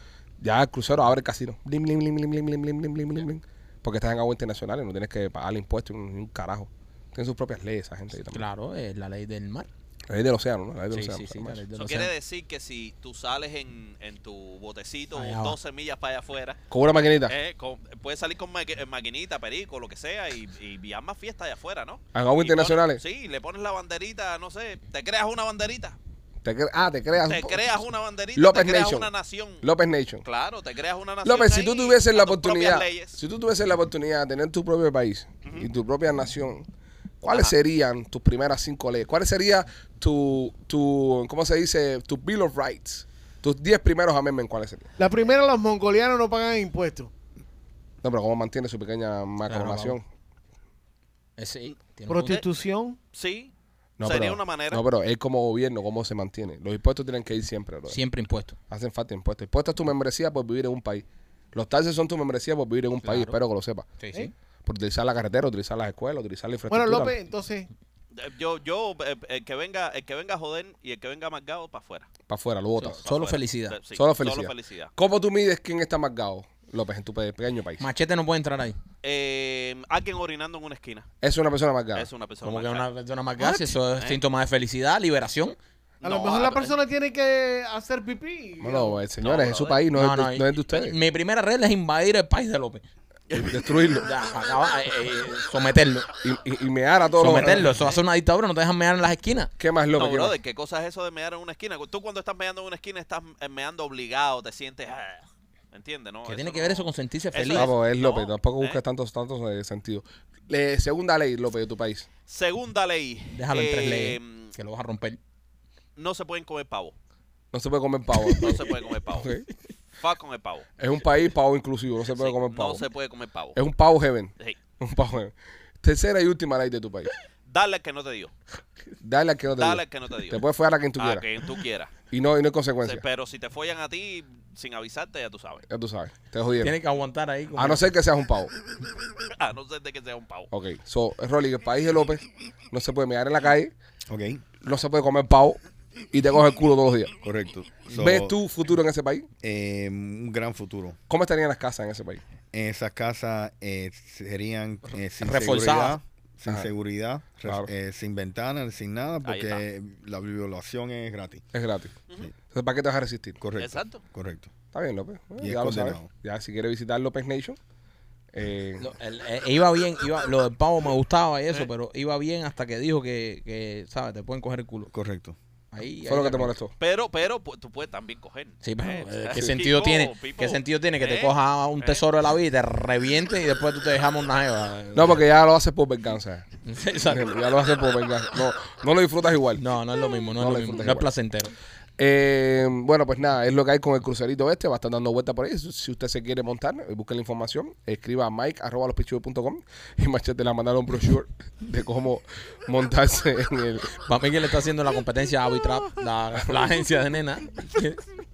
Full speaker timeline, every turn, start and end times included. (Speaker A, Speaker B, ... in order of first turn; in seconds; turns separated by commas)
Speaker A: 0.4-8.5, Speaker B: 8.3-9.7, Speaker A: 10.1-11.6, Speaker B: 10.9-12.1, Speaker C: 11.8-16.6, Speaker B: 15.1-15.6, Speaker A: 16.7-17.4, Speaker C: 17.3-26.0, Speaker A: 22.1-23.0, Speaker A: 26.4-27.6, Speaker C: 27.2-29.6, Speaker A: 28.4-29.1, Speaker A: 29.6-30.2, Speaker C: 30.2-33.2, Speaker A: 31.2-36.7, Speaker A: 37.2-44.9, Speaker D: 45.0-47.1, Speaker A: 48.0-50.0, Speaker B: 49.5-50.0, Speaker B: 51.4-52.4, Speaker D: 52.1-53.0, Speaker C: 53.1-53.5, Speaker A: 54.0-58.0, Speaker C: 54.0-54.8, Speaker B: 57.9-58.6, Speaker A: 58.7-63.9, Speaker B: 63.0-63.4, Speaker B: 64.0-64.3, Speaker A: 64.7-67.2, Speaker D: 66.7-67.7, Speaker C: 68.2-72.1, Speaker A: 72.3-73.0, Speaker B: 72.8-73.8, Speaker C: 73.0-74.9, Speaker A: 74.0-77.8, Speaker B: 77.8-78.8, Speaker C: 79.0-81.1, Speaker A: 81.2-82.1, Speaker C: 82.0-82.9, Speaker B: 82.4-85.6, Speaker C: 86.0-86.7, Speaker D: 86.0-89.0, Speaker A: 88.6-91.0, Speaker C: 89.2-89.8, Speaker B: 90.0-92.8, Speaker A: 93.3-94.1, Speaker B: 94.0-96.1, Speaker A: 96.2-97.7, Speaker B: 97.2-99.5, Speaker A: 99.6-100.4, Speaker C: 99.9-108.8, Speaker B: 106.2-107.7, Speaker A: 107.5-112.1, Speaker C: 112.3-114.5, Speaker B: 113.3-115.2, Speaker C: 116.0-116.9, Speaker A: 117.5-119.5, Speaker C: 118.3-119.3, Speaker C: 120.0-120.7, Speaker A: 120.8-122.8, Speaker C: 122.1-123.6, Speaker A: 123.5-127.1, Speaker C: 127.5-128.3, Speaker A: 129.0-131.2, Speaker C: 129.6-130.4, Speaker C: 131.0-131.9, Speaker A: 132.1-133.0, Speaker C: 132.8-135.6, Speaker A: 135.7-136.8, Speaker B: 136.6-137.9, Speaker A: 137.6-138.5, Speaker C: 139.4-140.5, Speaker A: 140.5-143.7, Speaker E: 144.1-144.4, Speaker A: 144.6-145.6, Speaker A: 146.1-147.1, Speaker E: 147.2-148.3, Speaker A: 148.0-149.3, Speaker E: 149.4-151.0, Speaker A: 151.1-152.2, Speaker E: 152.5-161.4, Speaker B: 155.2-156.0, Speaker A: 157.4-157.7, Speaker C: 159.2-159.6, Speaker A: 161.5-161.9, Speaker A: 162.5-163.4, Speaker E: 163.4-164.5, Speaker C: 163.6-164.0, Speaker A: 164.7-167.6, Speaker E: 165.4-166.1, Speaker A: 168.3-168.9, Speaker B: 168.8-174.9, Speaker E: 174.9-175.4, Speaker B: 175.7-176.5, Speaker A: 176.0-176.7, Speaker C: 176.8-182.0, Speaker B: 178.6-185.2, Speaker A: 184.9-186.4, Speaker B: 186.6-187.4, Speaker A: 187.1-189.6, Speaker B: 189.6-191.5, Speaker A: 190.4-191.1, Speaker A: 192.0-204.0, Speaker B: 204.1-208.0